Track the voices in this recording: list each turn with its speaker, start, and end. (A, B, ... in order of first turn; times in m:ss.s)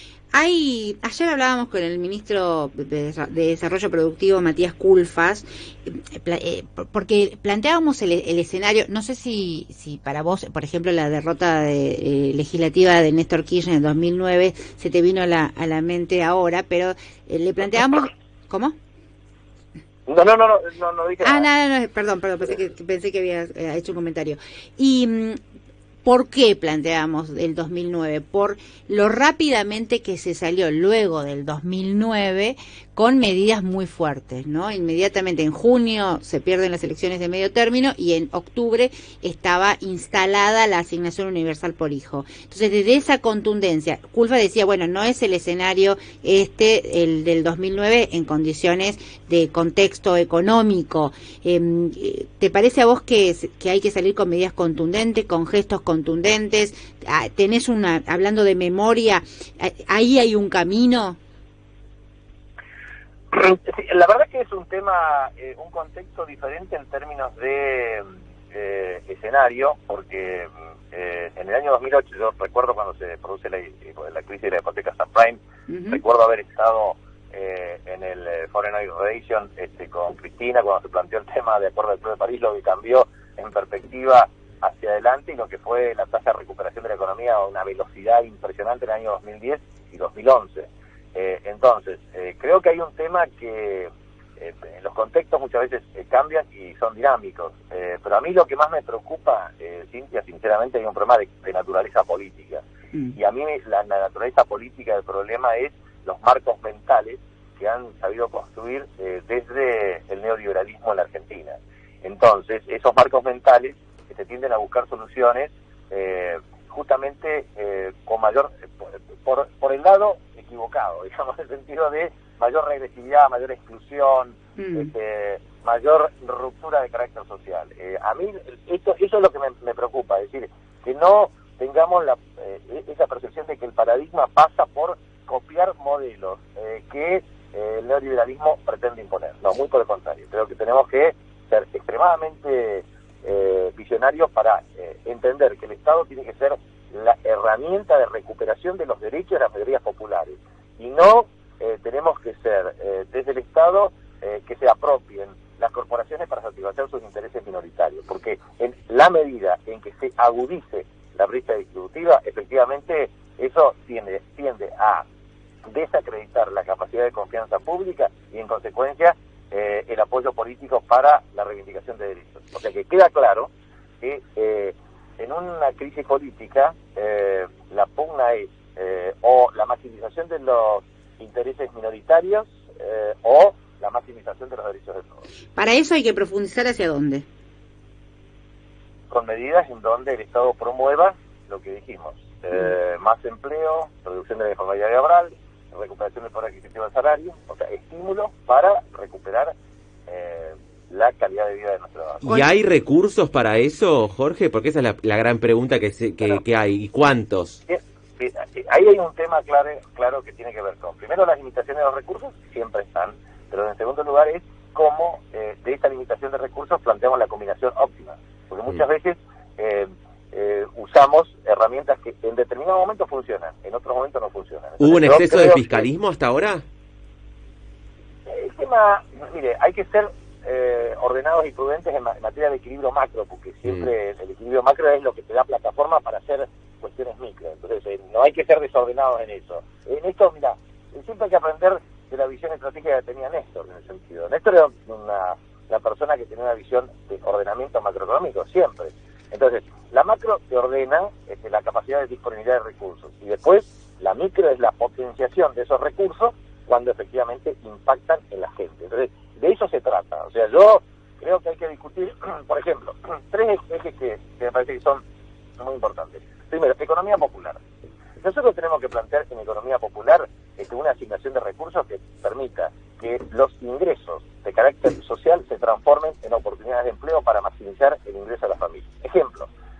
0:00.3-0:18.8 A
0:20.1-0:21.5 B
0:21.2-0:25.4 A
0:26.0-1:01.2 A
1:03.3-1:42.6 B
1:15.7-1:16.0 A
1:43.1-2:45.0 B
2:04.6-2:04.9 A
2:45.6-2:53.5 B
2:54.0-3:05.2 B
3:05.6-3:07.2 A
3:09.1-3:19.5 B
3:20.1-3:22.3 B
3:22.2-3:27.6 C
3:27.7-3:45.9 B
3:44.8-3:46.6 C
3:48.3-4:25.0 B
4:25.6-4:27.6 B
4:28.2-4:39.5 B